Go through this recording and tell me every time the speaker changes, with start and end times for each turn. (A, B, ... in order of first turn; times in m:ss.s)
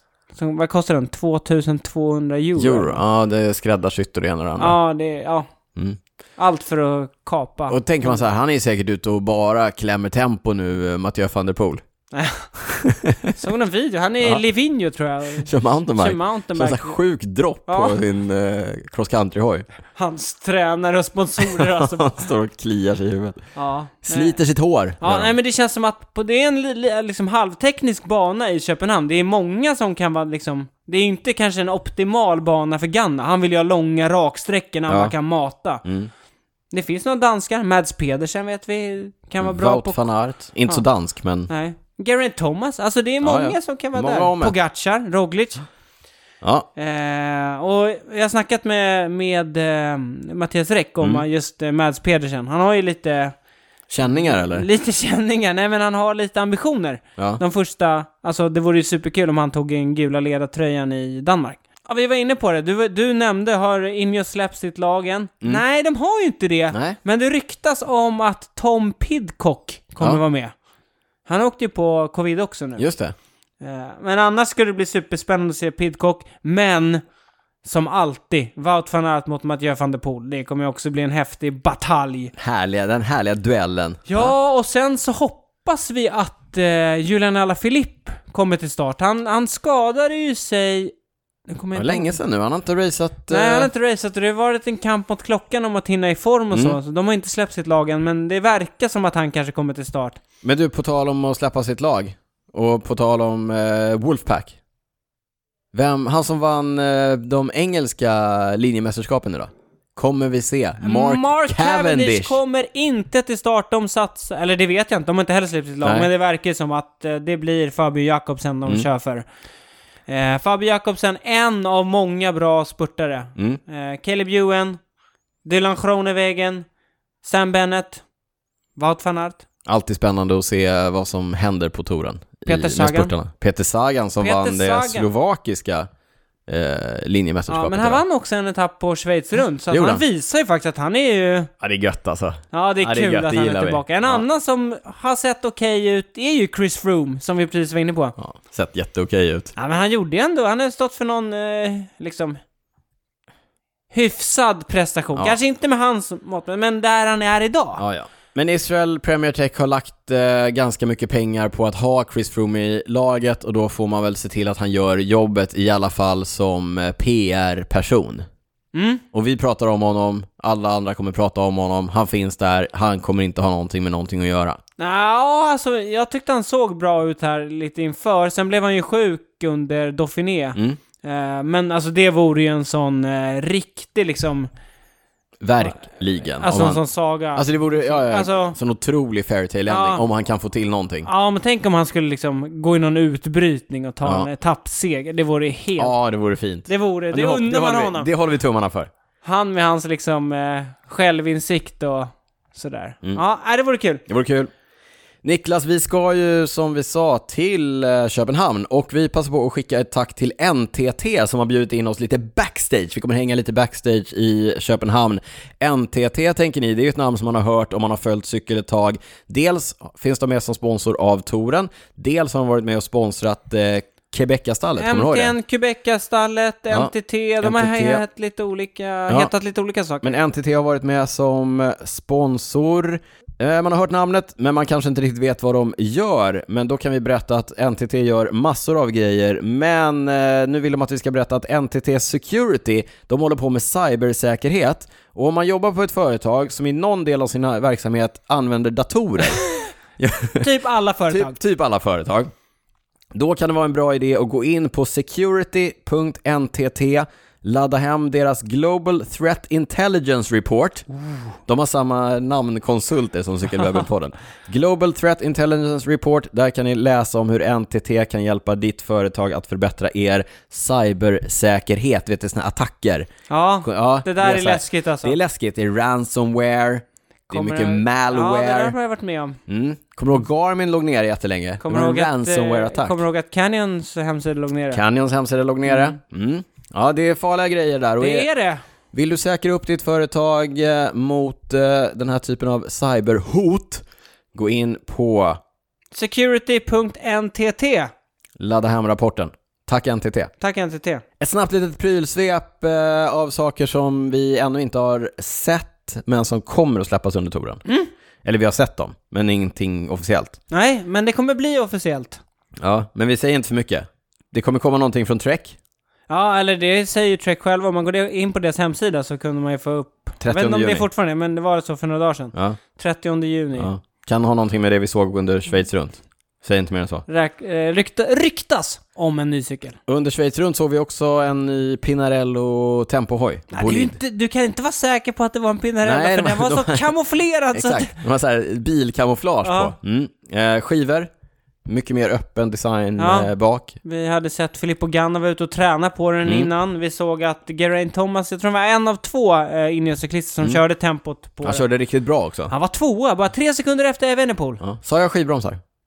0:00.3-0:03.0 A
0:02.6-0:04.8 B
0:04.6-0:05.5 A
0:06.4-0:08.2 A
0:07.7-0:11.8 B
0:12.1-0:12.5 A
0:12.6-0:13.4 B
0:13.4-0:17.0 A
0:15.4-0:19.6 B
0:17.7-0:18.0 A
0:19.9-0:22.3 A
0:21.4-0:23.4 B
0:23.5-0:24.4 A
0:24.0-0:25.3 B
0:25.0-0:35.8 A
0:34.9-0:35.1 B
0:35.8-0:36.1 B
0:36.7-0:40.0 A
0:39.4-0:41.5 B
0:41.5-0:45.6 A
0:43.2-0:44.5 B
0:46.4-0:46.7 B
0:46.8-0:53.3 A
0:53.9-0:54.7 B
0:54.0-1:10.5 A
1:06.7-1:07.0 B
1:11.2-1:12.8 A
1:12.8-1:13.1 B
1:13.6-1:17.0 A
1:17.6-1:22.3 A
1:22.4-1:24.3 B
1:24.1-1:30.9 A
1:31.5-1:32.2 A
1:31.7-1:33.7 B
1:33.3-1:40.2 A
1:36.5-1:36.8 B
1:40.4-1:44.6 B
1:45.7-1:52.4 B
1:50.8-1:59.2 A
1:55.8-1:56.1 B
2:00.1-2:04.8 A
2:05.4-2:06.6 A
2:07.2-2:08.0 A
2:08.8-2:09.4 A
2:09.6-2:15.9 B
2:12.5-2:13.1 A
2:14.2-2:15.1 A
2:16.5-2:18.0 B
2:17.5-2:21.5 A
2:19.7-2:20.0 B
2:21.6-2:24.2 B
2:22.5-2:28.1 A
2:28.2-2:29.5 B
2:29.6-2:32.4 A
2:33.9-2:37.8 A
2:37.8-2:48.3 B
2:48.7-2:49.0 A
2:49.1-2:54.6 B
2:54.8-3:04.5 A
3:05.4-3:06.8 B
3:06.4-3:08.6 A
3:07.3-3:11.1 B
3:09.7-3:10.0 A
3:11.0-3:15.9 A
3:14.0-3:14.3 B
3:15.8-3:18.9 B
3:16.7-3:18.1 A
3:19.2-3:24.0 A
3:24.1-3:24.5 B
3:25.2-3:45.3 B
3:44.8-3:50.2 A
3:46.7-3:48.0 B
3:50.0-4:10.5 B
4:10.4-4:11.3 A
4:11.1-4:12.3 B
4:13.1-4:20.9 B
4:21.5-4:33.1 B
4:33.3-4:35.2 A
4:33.6-4:38.7 B
4:37.3-4:39.4 A
4:39.5-4:43.0 B
4:41.6-4:44.8 A
4:44.7-4:48.3 B
4:45.6-4:46.0 A
4:48.0-4:48.6 A
4:48.9-4:55.4 B
4:55.9-4:57.9 A
4:58.4-5:00.3 B
5:00.4-5:01.0 A
5:01.2-5:07.6 B
5:08.2-5:10.4 B
5:10.5-5:12.2 A
5:12.6-5:15.6 B
5:16.1-5:23.7 A
5:20.2-5:20.8 B
5:23.6-5:27.0 B
5:27.1-5:29.8 A
5:29.9-5:34.0 B
5:33.5-5:37.9 A
5:35.8-5:36.9 B
5:37.5-5:41.1 B
5:39.4-5:39.7 A
5:41.6-5:43.8 B
5:43.0-5:43.3 A
5:43.8-5:51.6 A
5:51.4-5:52.5 B
5:52.5-5:54.6 A
5:54.6-5:55.6 B